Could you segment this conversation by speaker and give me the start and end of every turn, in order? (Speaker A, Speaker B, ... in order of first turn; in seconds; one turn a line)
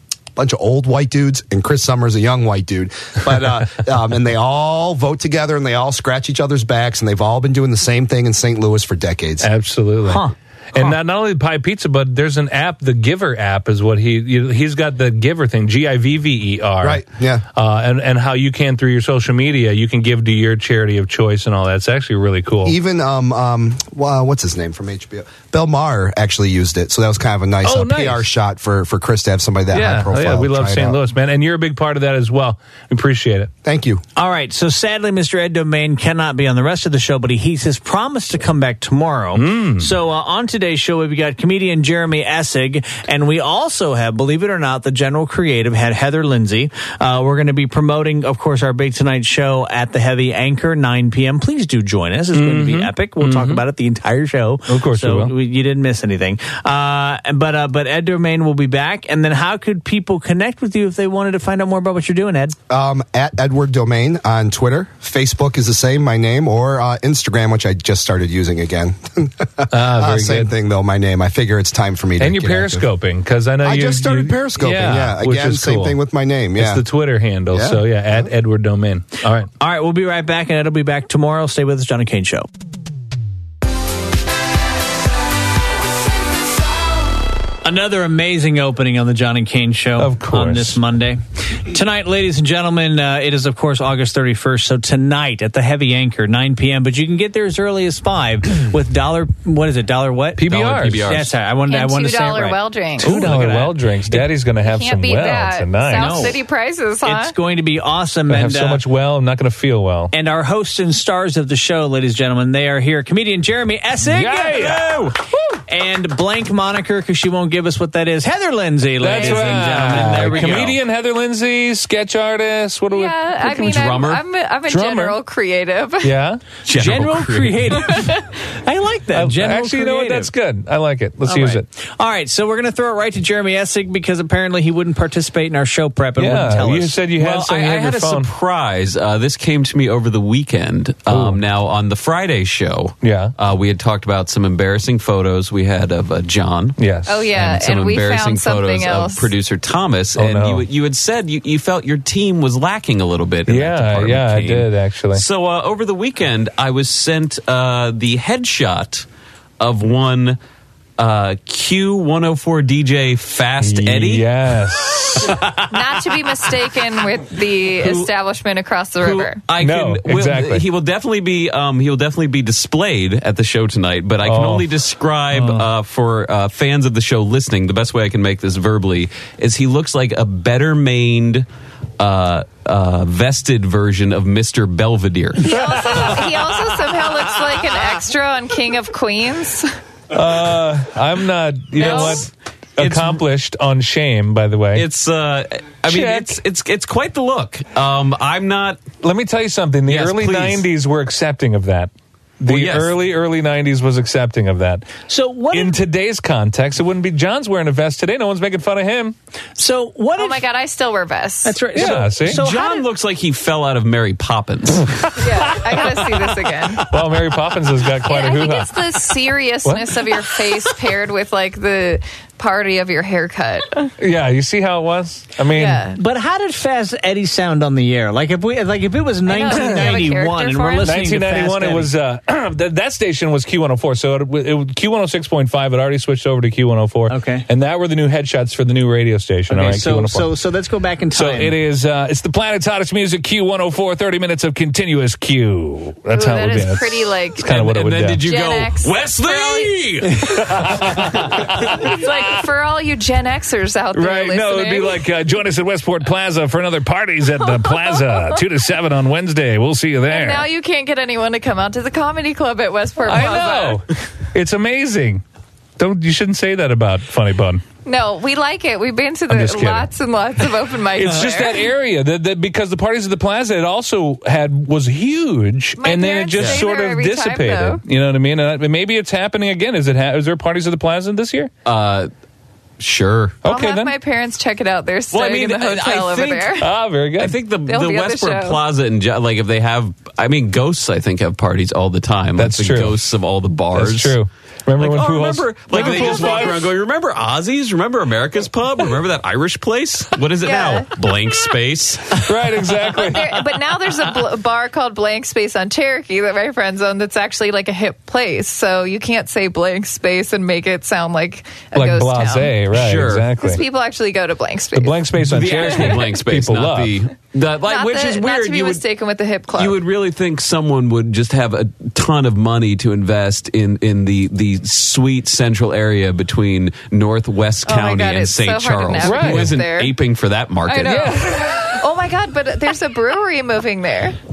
Speaker A: 0.4-9.5
Speaker B: 9.4-10.2
Speaker C: 10.1-11.0
Speaker B: 10.7-22.7
Speaker A: 16.8-17.4
Speaker A: 22.6-31.0
Speaker B: 27.6-28.3
Speaker B: 29.7-33.5
Speaker A: 33.6-34.0
Speaker C: 34.2-62.6
Speaker B: 39.4-39.9
Speaker B: 52.3-53.6
Speaker B: 54.7-55.3
Speaker A: 62.7-72.8
Speaker B: 69.7-70.5
Speaker B: 72.2-76.0
Speaker A: 73.6-76.8
Speaker B: 76.6-79.5
Speaker A: 77.5-78.3
Speaker C: 79.6-82.5
Speaker C: 87.6-104.3
Speaker B: 90.0-90.8
Speaker B: 100.4-101.1
Speaker D: 100.5-101.3
Speaker E: 101.7-103.3
Speaker B: 103.0-106.4
Speaker E: 104.6-107.3
Speaker C: 106.0-106.4
Speaker C: 107.0-108.8
Speaker B: 108.3-110.1
Speaker C: 110.1-115.1
Speaker B: 114.0-115.6
Speaker D: 114.6-115.1
Speaker C: 115.7-120.8
Speaker B: 119.0-123.7
Speaker E: 119.0-119.8
Speaker D: 120.4-120.7
Speaker E: 122.9-126.2
Speaker D: 123.4-124.2
Speaker B: 124.7-125.2
Speaker B: 126.0-126.4
Speaker D: 126.7-128.0
Speaker C: 126.7-130.3
Speaker E: 127.9-128.2
Speaker B: 129.1-131.7
Speaker C: 131.3-137.0
Speaker B: 136.2-138.3
Speaker D: 137.2-146.8
Speaker B: 141.1-141.4
Speaker B: 143.0-143.3
Speaker B: 146.8-147.3
Speaker E: 147.1-149.3
Speaker D: 147.3-159.1
Speaker B: 150.2-150.7
Speaker B: 153.5-155.2
Speaker D: 159.6-160.4
Speaker D: 161.0-166.4
Speaker B: 163.6-165.4
Speaker E: 165.7-169.4
Speaker D: 167.7-168.1
Speaker D: 169.0-181.5
Speaker B: 169.6-170.7
Speaker B: 174.2-174.7
Speaker B: 175.4-175.6
Speaker D: 182.0-186.8
Speaker E: 185.4-189.7
Speaker B: 190.1-194.9
Speaker E: 191.8-192.3
Speaker C: 191.8-192.2
Speaker C: 192.8-193.2
Speaker D: 194.7-198.9
Speaker B: 195.9-196.4
Speaker B: 199.0-204.9
Speaker D: 199.9-200.6
Speaker D: 202.5-202.9
Speaker C: 205.1-205.8
Speaker B: 205.5-209.2
Speaker C: 209.6-210.4
Speaker E: 210.2-211.8
Speaker C: 211.4-212.8
Speaker B: 211.7-212.4
Speaker D: 212.3-215.2
Speaker B: 214.9-219.1
Speaker E: 215.2-216.9
Speaker E: 218.0-223.9
Speaker B: 219.7-220.4
Speaker B: 224.0-225.8
Speaker E: 225.4-226.0
Speaker C: 225.9-231.9
Speaker E: 229.3-231.0
Speaker B: 229.6-229.9
Speaker B: 230.8-240.3
Speaker C: 237.1-237.5
Speaker C: 239.5-241.6
Speaker B: 241.1-248.2
Speaker E: 246.1-247.6
Speaker D: 247.4-251.6
Speaker E: 248.2-249.8
Speaker B: 250.2-252.4
Speaker E: 251.7-255.1
Speaker B: 253.9-260.5
Speaker E: 257.4-258.4
Speaker E: 260.1-263.9
Speaker B: 263.1-265.2
Speaker B: 265.8-267.6
Speaker E: 267.8-271.7
Speaker B: 269.3-269.9
Speaker B: 270.9-281.5
Speaker E: 275.8-277.8
Speaker D: 276.4-276.6
Speaker D: 281.6-282.1
Speaker D: 282.8-283.4
Speaker B: 283.4-284.0
Speaker E: 283.4-286.7
Speaker D: 285.1-286.6
Speaker B: 286.6-287.4
Speaker D: 287.2-294.2
Speaker E: 287.6-288.6
Speaker B: 292.4-293.0
Speaker B: 293.7-296.7
Speaker D: 294.8-302.3
Speaker E: 295.8-296.5
Speaker E: 300.4-300.9
Speaker B: 300.5-300.9
Speaker B: 302.1-303.4
Speaker E: 302.9-312.6
Speaker B: 311.7-313.6
Speaker D: 312.7-313.3
Speaker E: 313.3-316.2
Speaker B: 314.7-317.0
Speaker D: 315.2-318.9
Speaker E: 317.6-319.8
Speaker D: 319.6-331.2
Speaker E: 327.6-330.0
Speaker B: 329.0-329.6
Speaker E: 330.7-334.2
Speaker B: 330.8-331.9